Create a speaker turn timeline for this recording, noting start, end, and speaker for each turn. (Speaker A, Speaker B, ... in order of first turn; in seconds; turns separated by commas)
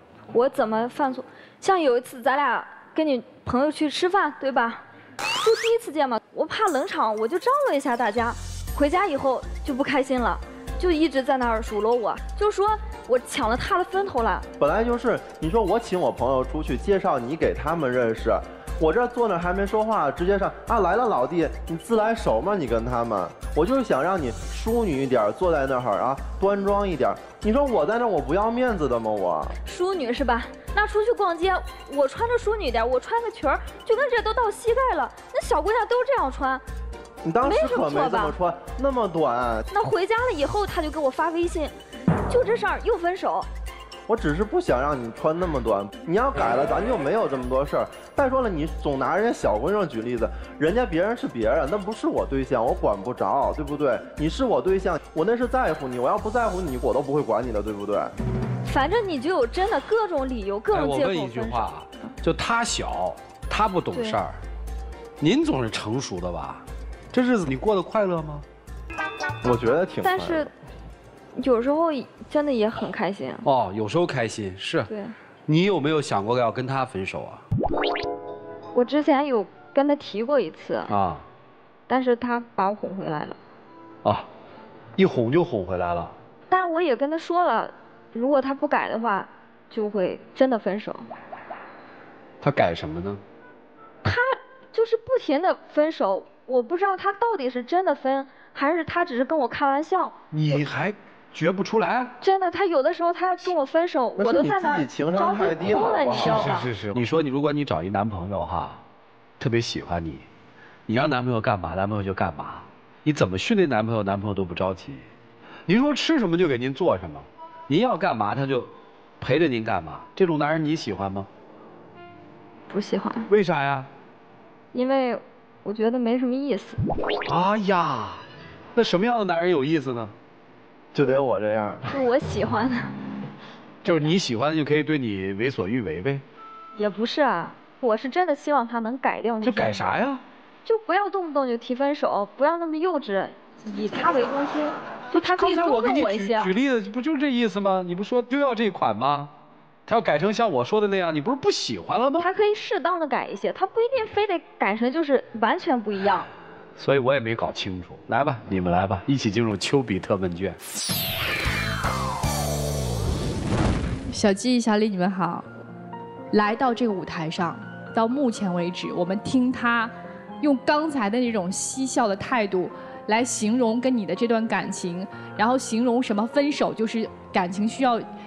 Speaker A: 0.3-14.5, Speaker B: 14.6-29.6, Speaker A: 29.6-36.6, Speaker B: 37.2-39.7, Speaker A: 37.4-38.4, Speaker A: 39.7-41.7, Speaker A: 42.3-43.5, Speaker B: 44.1-58.1, Speaker A: 58.6-61.7, Speaker C: 60.7-64.4, Speaker C: 65.2-68.5, Speaker B: 69.4-70.5, Speaker A: 70.0-70.5, Speaker A: 71.4-73.5, Speaker C: 73.5-74.9, Speaker A: 74.9-75.2, Speaker C: 75.5-77.4, Speaker A: 78.7-80.9, Speaker C: 80.9-81.2, Speaker A: 81.9-83.4, Speaker C: 85.0-86.1, Speaker A: 86.5-91.1, Speaker C: 92.4-93.2, Speaker A: 94.0-100.2, Speaker C: 100.3-102.1, Speaker A: 102.2-106.7, Speaker B: 104.2-106.6, Speaker C: 106.2-108.8, Speaker C: 109.4-110.3, Speaker C: 110.9-115.1, Speaker C: 115.7-118.7, Speaker C: 119.2-121.3, Speaker A: 122.7-123.3, Speaker C: 123.3-123.9, Speaker A: 124.7-126.8, Speaker C: 127.3-128.2, Speaker C: 128.8-130.1, Speaker B: 130.9-131.9, Speaker A: 131.9-132.9, Speaker C: 133.8-136.2, Speaker A: 136.8-139.8, Speaker C: 139.4-140.2, Speaker A: 140.7-146.5, Speaker C: 145.1-149.3, Speaker C: 149.9-152.3, Speaker A: 152.2-156.3, Speaker C: 156.8-160.6, Speaker D: 164.1-165.5, Speaker D: 166.3-178.1